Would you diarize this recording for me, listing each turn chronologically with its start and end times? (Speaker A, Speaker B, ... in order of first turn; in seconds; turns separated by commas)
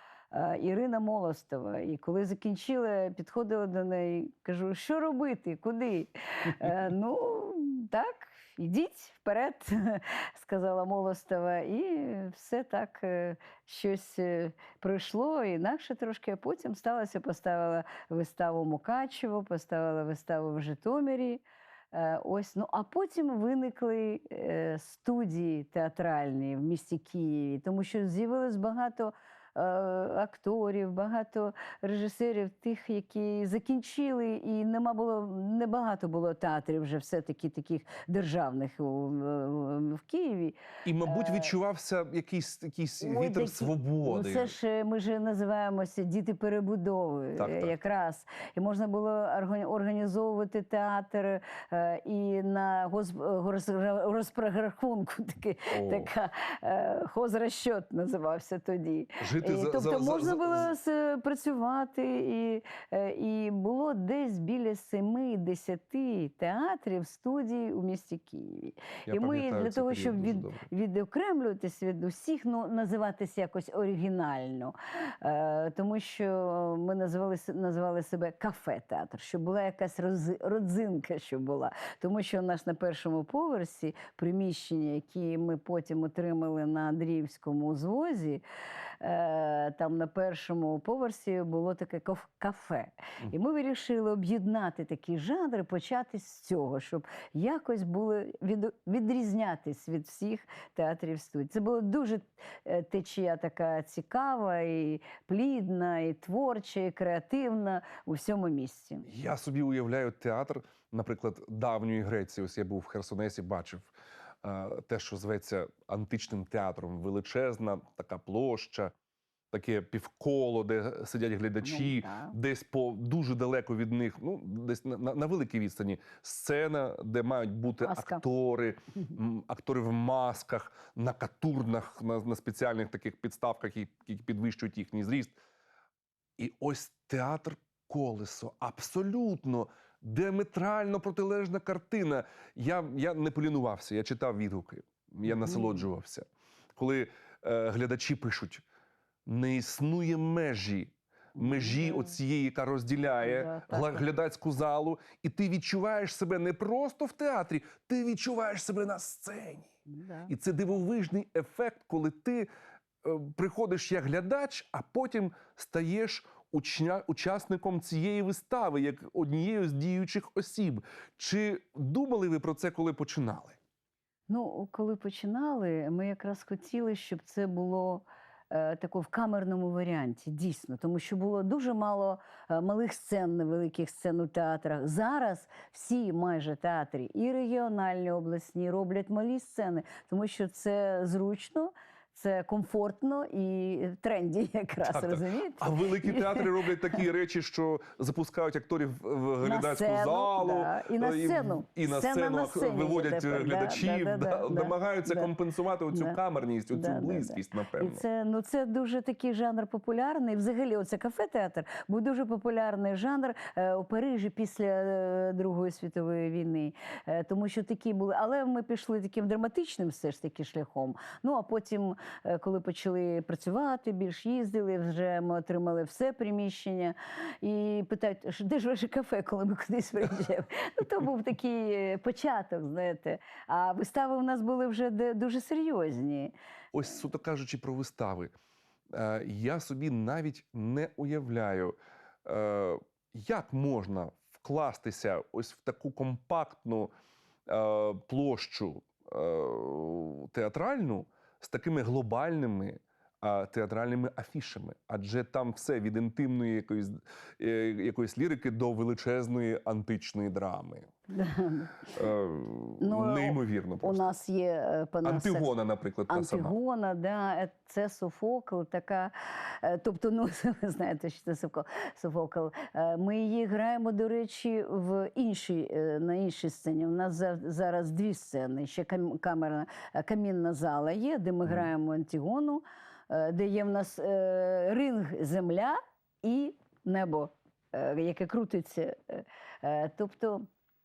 Speaker A: 0.3-41.5, Speaker B: 40.8-44.5, Speaker A: 43.0-88.4, Speaker B: 47.4-47.7, Speaker B: 55.7-56.1, Speaker B: 59.2-60.7, Speaker B: 69.1-70.7, Speaker A: 89.0-109.0, Speaker B: 109.0-113.9, Speaker B: 114.4-118.9, Speaker B: 119.5-135.4, Speaker A: 121.6-122.3, Speaker A: 127.8-128.2, Speaker B: 136.4-148.6, Speaker A: 145.3-145.8, Speaker B: 149.2-159.7, Speaker A: 151.4-152.1, Speaker A: 153.2-154.0, Speaker A: 159.9-160.3, Speaker B: 160.3-162.5, Speaker B: 163.0-173.6, Speaker A: 174.3-197.0, Speaker B: 194.8-208.0, Speaker A: 199.4-205.3, Speaker A: 205.9-206.2, Speaker A: 206.7-236.3, Speaker B: 236.7-238.3, Speaker B: 238.9-246.9, Speaker B: 247.5-260.9, Speaker A: 261.1-261.9, Speaker B: 261.9-264.1, Speaker A: 262.8-265.5, Speaker B: 265.0-266.5, Speaker A: 266.1-290.5